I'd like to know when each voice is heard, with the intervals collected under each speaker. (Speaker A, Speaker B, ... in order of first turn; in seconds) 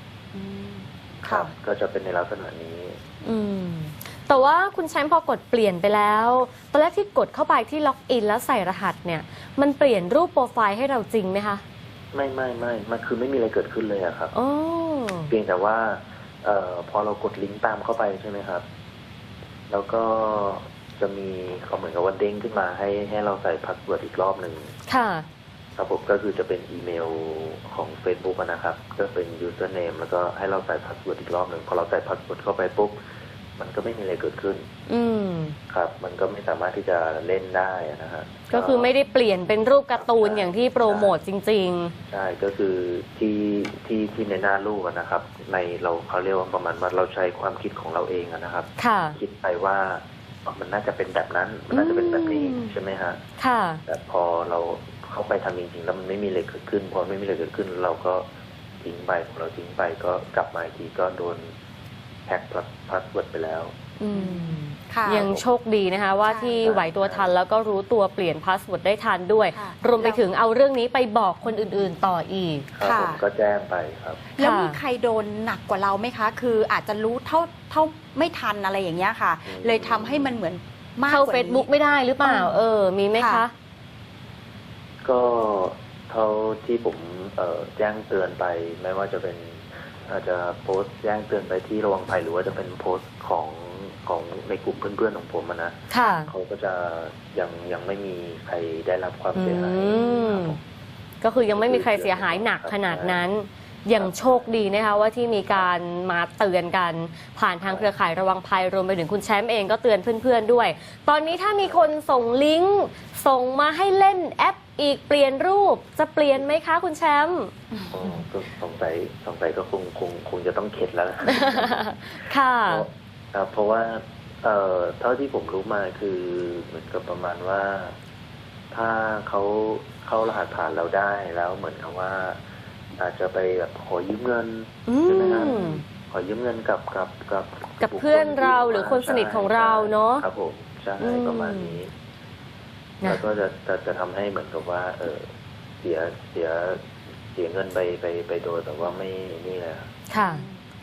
Speaker A: 0.3-1.5, 64.1-65.2, 66.2-66.6, 69.5-70.2, 72.8-73.2, 74.3-81.7, 82.2-82.6, 83.1-83.4, 117.7-118.2, 150.3-150.6
Speaker B: 1.2-3.0, 12.1-14.3, 15.3-18.6, 19.7-24.7, 25.8-33.0, 33.6-34.7, 35.7-38.9, 40.0-41.1, 42.1-53.2, 53.9-58.2, 58.8-61.5, 62.2-63.7, 65.1-65.4, 66.6-67.3, 72.7-74.2, 79.5-80.3, 85.0-100.6, 101.4-103.2, 104.0-104.5, 111.3-111.9, 117.9-128.0, 128.7-132.4, 132.9-141.9, 143.0-145.3, 145.8-146.8, 147.3-149.9
Speaker C: 3.2-11.6, 14.3-15.3, 24.9-25.2, 34.9-35.6, 38.5-41.9, 48.8-49.2, 51.7-52.7, 53.4-53.8, 64.0-72.7, 74.4-74.8, 81.1-83.5, 95.9-96.3, 99.3-100.6, 101.2-117.5, 121.3-122.9, 134.9-135.8, 137.8-140.2, 141.0-141.8, 150.1-150.4